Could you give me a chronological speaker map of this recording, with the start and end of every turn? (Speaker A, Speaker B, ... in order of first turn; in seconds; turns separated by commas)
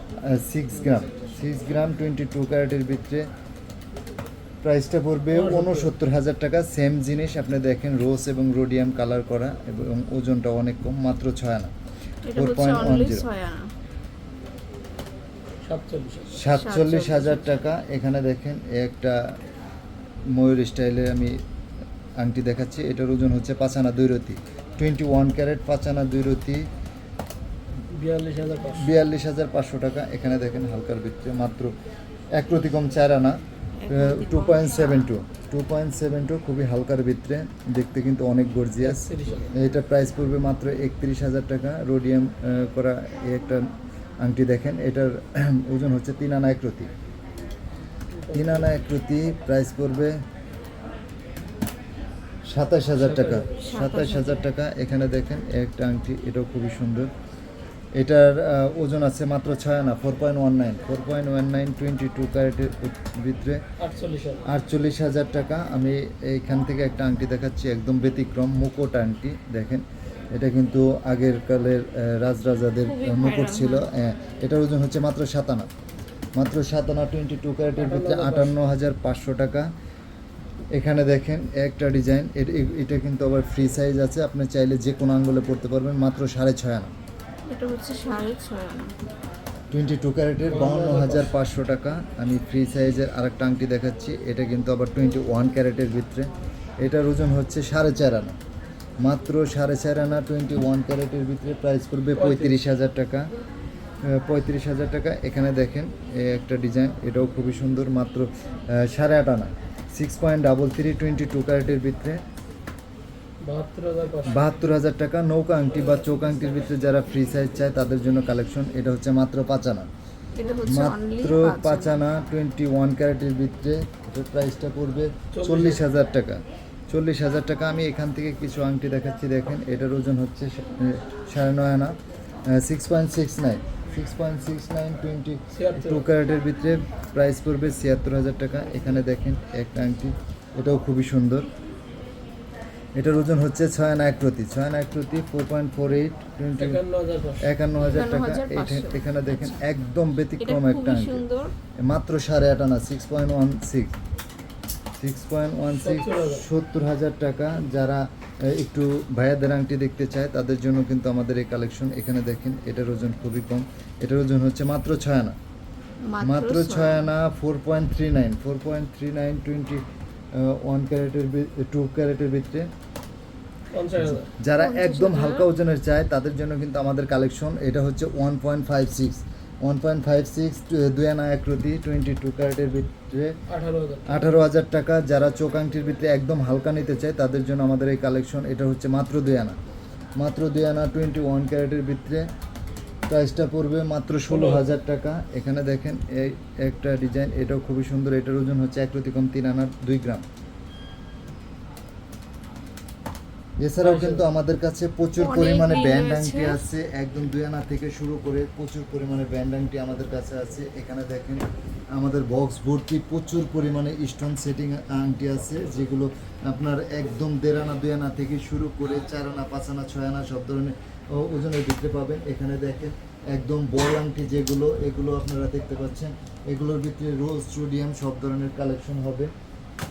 Speaker A: 0.2-3.2, Speaker A: 4.6-11.7, Speaker B: 5.3-5.9, Speaker C: 12.2-13.7, Speaker A: 12.3-13.2, Speaker B: 15.6-16.3, Speaker A: 16.3-19.2, Speaker C: 16.4-17.5, Speaker A: 20.3-21.4, Speaker A: 22.2-26.6, Speaker B: 27.9-28.9, Speaker A: 28.7-31.7, Speaker A: 32.3-33.4, Speaker C: 33.8-35.0, Speaker A: 33.9-43.7, Speaker B: 38.8-39.5, Speaker A: 44.2-46.9, Speaker B: 48.1-48.7, Speaker A: 48.3-50.2, Speaker A: 52.5-57.1, Speaker B: 53.0-53.6, Speaker C: 53.6-54.5, Speaker A: 58.0-63.6, Speaker B: 63.8-64.5, Speaker A: 64.5-75.7, Speaker C: 72.8-73.8, Speaker A: 76.3-79.7, Speaker B: 77.8-78.5, Speaker A: 80.7-86.9, Speaker C: 87.5-88.9, Speaker A: 89.7-96.3, Speaker B: 90.5-91.3, Speaker A: 96.8-98.3, Speaker A: 99.0-103.3, Speaker B: 102.1-102.6, Speaker A: 104.0-112.2, Speaker B: 113.4-114.5, Speaker A: 114.2-119.9, Speaker C: 120.3-122.0, Speaker A: 120.7-131.9, Speaker B: 125.3-125.8, Speaker A: 132.5-141.5, Speaker B: 135.5-136.0, Speaker A: 142.9-146.8, Speaker B: 146.6-147.5, Speaker A: 147.4-151.2, Speaker C: 147.8-149.6, Speaker C: 150.4-151.5, Speaker A: 151.8-153.9, Speaker A: 155.0-165.3, Speaker B: 155.7-156.4, Speaker C: 166.1-167.1, Speaker A: 166.2-172.7, Speaker B: 173.7-174.3, Speaker A: 174.0-183.3, Speaker C: 174.6-175.5, Speaker B: 183.5-184.4, Speaker A: 184.1-189.6, Speaker A: 190.2-192.3, Speaker A: 193.1-200.2, Speaker B: 194.3-194.7, Speaker A: 203.6-211.4, Speaker B: 203.8-204.2, Speaker C: 205.2-206.6, Speaker A: 211.9-229.3